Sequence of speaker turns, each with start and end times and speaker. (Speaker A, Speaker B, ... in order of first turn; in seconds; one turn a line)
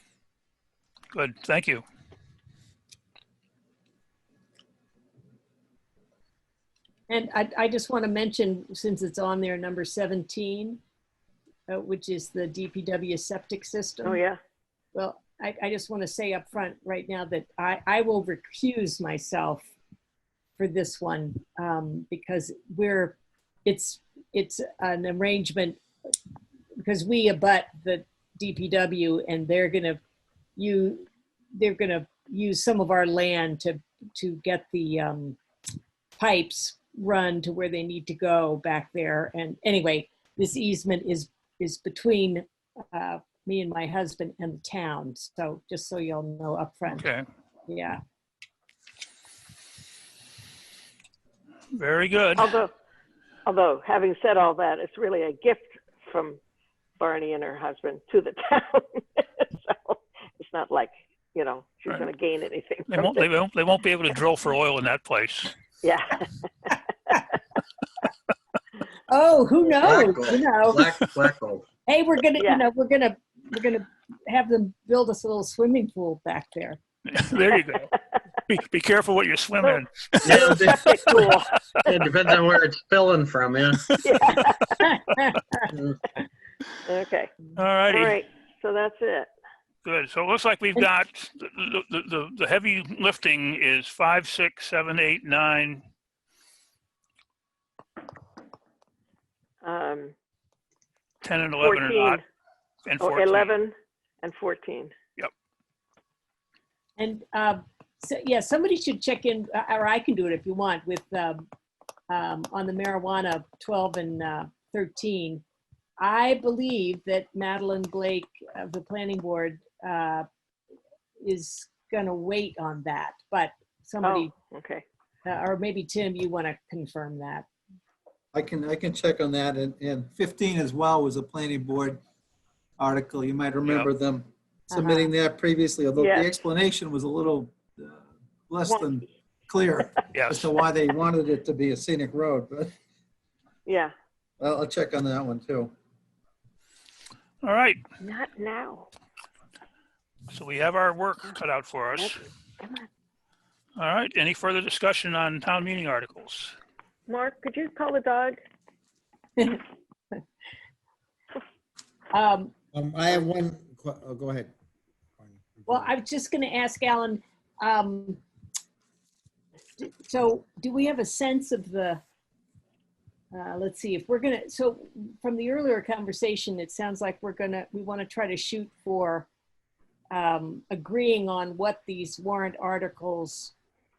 Speaker A: 1.1-1.8
Speaker B: 7.1-10.8
Speaker B: 11.7-14.2
Speaker C: 14.0-14.4
Speaker B: 14.9-19.7
Speaker B: 20.6-25.8
Speaker B: 26.8-30.0
Speaker B: 30.6-35.4
Speaker B: 36.2-47.0
Speaker A: 46.9-47.2
Speaker B: 47.7-48.0
Speaker A: 51.7-52.6
Speaker C: 52.4-52.7
Speaker C: 53.5-56.4
Speaker C: 57.0-63.3
Speaker A: 62.9-65.5
Speaker C: 65.8-67.2
Speaker B: 69.1-70.9
Speaker D: 69.8-71.6
Speaker B: 71.9-76.8
Speaker A: 77.1-77.9
Speaker A: 78.5-80.5
Speaker C: 79.6-82.0
Speaker D: 80.2-81.2
Speaker D: 81.8-84.0
Speaker C: 84.0-84.9
Speaker C: 86.8-87.3
Speaker A: 87.5-88.2
Speaker C: 87.9-89.3
Speaker A: 89.8-95.8
Speaker C: 99.6-100.1
Speaker A: 101.2-102.2
Speaker C: 101.6-102.2
Speaker A: 102.8-103.5
Speaker C: 103.0-104.9
Speaker B: 107.0-111.4
Speaker B: 112.1-115.4
Speaker B: 116.0-120.3
Speaker B: 121.2-124.3
Speaker C: 124.0-124.8
Speaker B: 125.2-127.5
Speaker E: 128.3-132.0
Speaker E: 132.8-142.7
Speaker A: 133.6-133.9
Speaker B: 134.7-135.1
Speaker C: 136.0-136.3
Speaker C: 138.6-139.0
Speaker A: 140.1-140.5
Speaker C: 143.7-143.9
Speaker E: 144.4-145.7
Speaker A: 147.4-147.8
Speaker C: 148.0-148.9
Speaker A: 150.3-152.2
Speaker C: 151.9-152.9
Speaker A: 153.8-156.5
Speaker C: 157.1-158.4
Speaker B: 162.1-162.5
Speaker F: 162.7-164.5
Speaker F: 165.2-165.9
Speaker B: 165.7-168.2
Speaker B: 169.8-172.0
Speaker B: 173.3-179.3
Speaker B: 180.1-183.5